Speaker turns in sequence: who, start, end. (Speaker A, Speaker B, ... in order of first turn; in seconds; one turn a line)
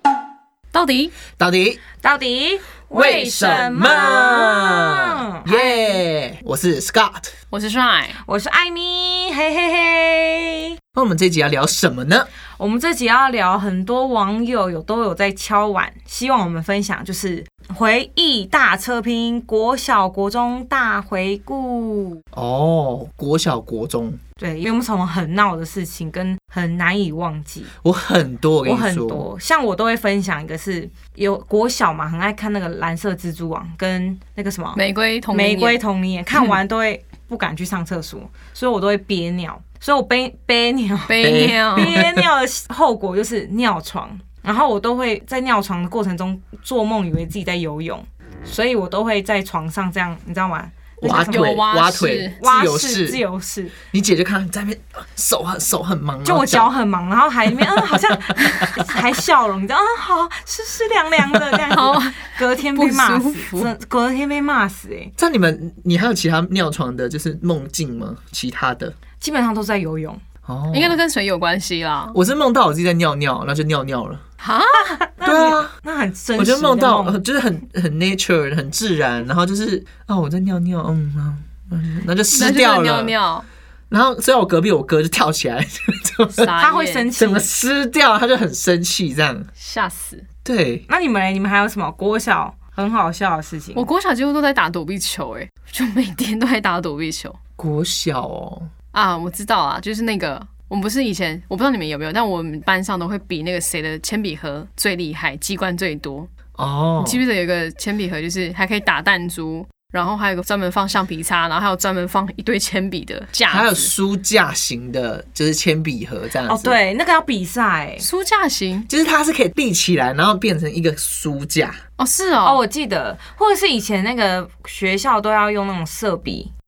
Speaker A: 0.7-1.2
Speaker B: 1.3-1.8
Speaker C: 2.0-6.0
Speaker B: 2.9-7.3
Speaker A: 7.5-8.2
Speaker C: 8.2-10.7
Speaker B: 10.9-12.3
Speaker C: 12.6-22.2
Speaker B: 22.3-24.2
Speaker C: 24.4-27.7
Speaker B: 27.8-29.3
Speaker C: 28.6-51.6
Speaker A: 34.8-35.8
Speaker A: 41.1-42.0
Speaker B: 41.2-42.2
Speaker B: 51.0-53.2
Speaker A: 51.3-52.4
Speaker C: 52.4-53.8
Speaker B: 53.8-56.7
Speaker C: 56.2-65.1
Speaker B: 58.0-58.5
Speaker A: 61.7-63.7
Speaker B: 65.2-69.0
Speaker C: 69.2-70.2
Speaker B: 70.5-71.0
Speaker A: 70.7-72.2
Speaker B: 72.1-74.2
Speaker A: 74.4-75.0
Speaker C: 75.0-77.2
Speaker B: 75.2-75.7
Speaker B: 76.4-83.1
Speaker A: 82.3-83.5
Speaker B: 83.9-86.5
Speaker A: 86.3-87.1
Speaker C: 86.6-87.5
Speaker B: 87.2-89.5
Speaker A: 89.6-90.2
Speaker B: 90.5-90.9
Speaker C: 90.9-93.8
Speaker A: 93.8-97.4
Speaker B: 97.6-98.7
Speaker A: 98.9-106.3
Speaker B: 106.6-107.2
Speaker A: 107.0-113.9
Speaker B: 113.5-116.8
Speaker C: 116.5-118.0
Speaker A: 118.0-118.9
Speaker B: 118.9-121.8
Speaker A: 122.0-122.6
Speaker C: 122.4-126.5